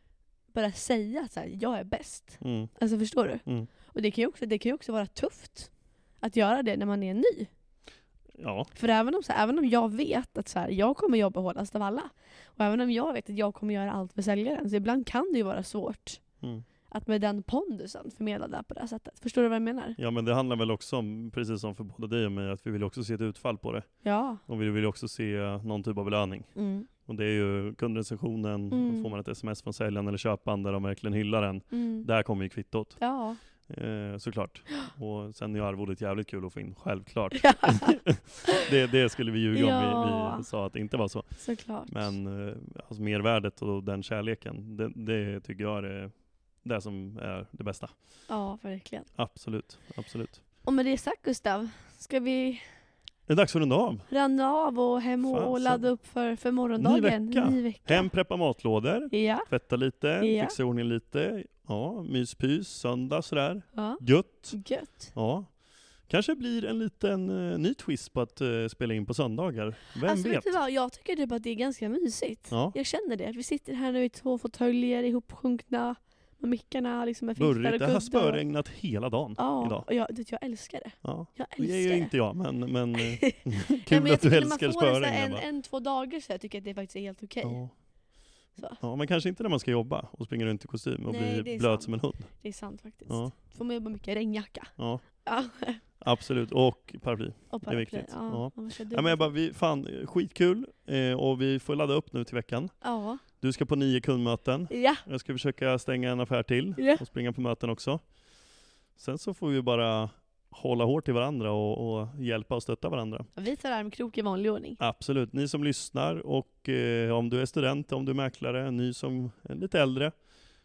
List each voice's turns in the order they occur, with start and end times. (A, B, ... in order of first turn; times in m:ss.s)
0:00.5-0:07.5 A
0:02.4-0:03.7 B
0:08.4-0:08.7 B
0:08.7-0:16.3 A
0:16.4-0:16.7 B
0:16.9-0:20.0 A
0:20.0-0:48.3 B
0:24.0-0:24.4 A
0:26.6-0:26.9 A
0:28.7-0:29.1 A
0:31.7-0:32.1 A
0:33.0-0:33.4 A
0:37.4-0:38.3 A
0:39.5-0:40.5 A
0:41.4-0:42.2 A
0:48.3-0:49.2 A
0:49.1-0:50.4 B
0:50.6-0:52.8 A
0:53.3-0:54.1 B
0:54.1-0:58.1 A
0:55.2-0:56.0 B
0:56.8-1:10.6 B
0:59.1-1:00.6 A
1:03.7-1:05.1 A
1:10.0-1:18.5 A
1:12.5-1:12.8 B
1:17.4-1:19.9 B
1:19.4-1:22.3 A
1:21.0-1:25.5 B
1:23.0-1:27.9 A
1:27.4-1:33.4 B
1:28.6-1:28.8 A
1:31.1-1:35.8 A
1:34.8-1:53.3 B
1:37.5-1:39.3 A
1:42.8-1:43.2 A
1:44.7-1:45.0 A
1:46.8-1:47.0 A
1:53.4-1:54.8 A
1:54.8-2:00.3 B